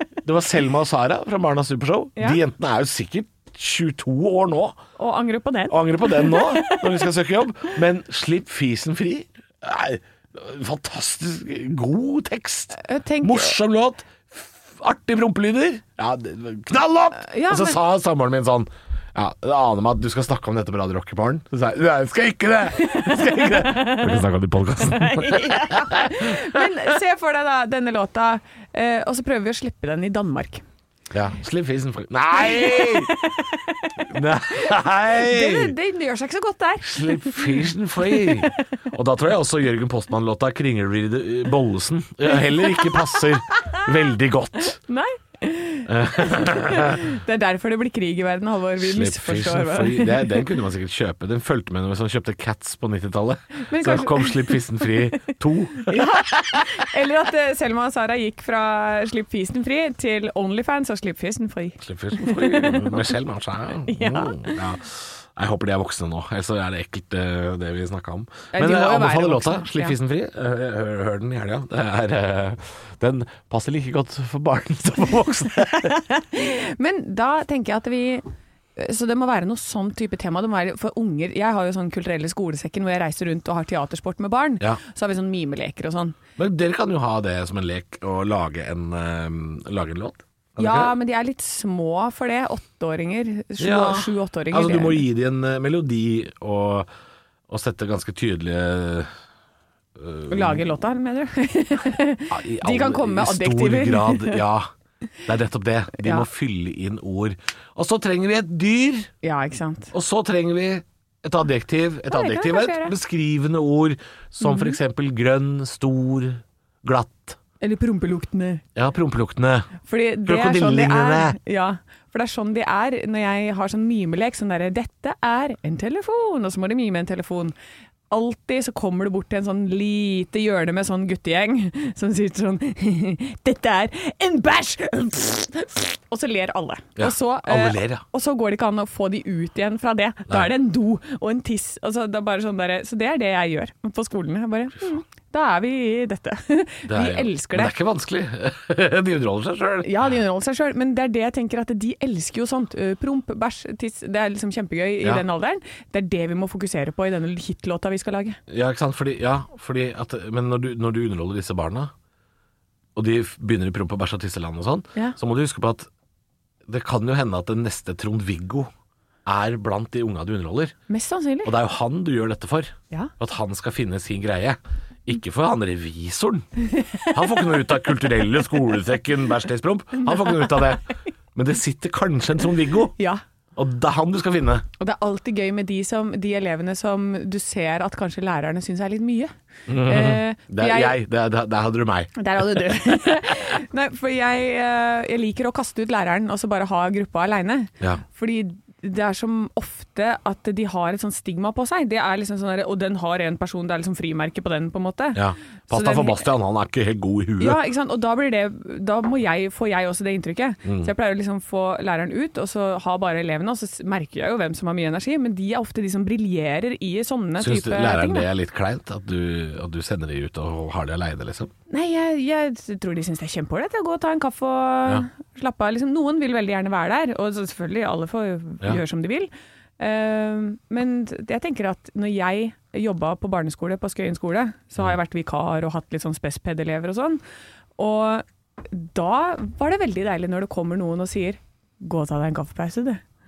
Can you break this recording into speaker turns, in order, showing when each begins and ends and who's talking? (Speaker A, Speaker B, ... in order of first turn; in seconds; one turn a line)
Speaker A: 0.2-4.8
Speaker B: 5.0-7.0
Speaker A: 5.7-26.7
Speaker B: 12.7-13.5
Speaker B: 17.1-17.8
Speaker B: 22.8-24.2
Speaker B: 24.8-30.6
Speaker A: 31.1-33.1
Speaker B: 32.4-38.5
Speaker A: 34.0-35.7
Speaker A: 36.8-44.8
Speaker B: 42.3-43.3
Speaker B: 44.9-50.5
Speaker A: 45.9-47.0
Speaker A: 48.8-56.6
Speaker B: 53.6-63.1
Speaker A: 61.8-75.9
Speaker B: 63.9-64.6
Speaker B: 68.5-69.9
Speaker B: 75.8-86.2
Speaker A: 86.4-90.9
Speaker B: 90.6-95.0
Speaker A: 93.6-96.9
Speaker A: 97.5-99.1
Speaker A: 100.0-100.6
Speaker B: 100.3-104.4
Speaker A: 102.3-104.7
Speaker A: 105.2-109.1
Speaker B: 109.2-109.9
Speaker A: 109.9-117.4
Speaker B: 112.1-112.9
Speaker B: 114.4-114.8
Speaker B: 117.6-118.6
Speaker A: 118.7-119.7
Speaker B: 119.8-127.5
Speaker A: 120.2-121.4
Speaker B: 128.1-147.7
Speaker A: 137.0-138.0
Speaker A: 146.9-150.1
Speaker B: 149.8-158.4
Speaker A: 158.5-161.9
Speaker A: 162.9-165.9
Speaker A: 166.7-168.7
Speaker A: 169.2-170.8
Speaker B: 170.9-171.5
Speaker A: 171.4-176.5
Speaker B: 176.7-177.4
Speaker A: 177.1-182.9
Speaker B: 180.0-180.8
Speaker A: 183.5-184.7
Speaker B: 184.8-189.3
Speaker A: 189.7-193.6
Speaker B: 189.8-191.0
Speaker B: 192.2-206.2
Speaker A: 205.1-207.6
Speaker B: 207.4-218.3
Speaker A: 210.6-210.9
Speaker A: 217.4-221.5
Speaker B: 221.7-237.2
Speaker B: 237.8-243.0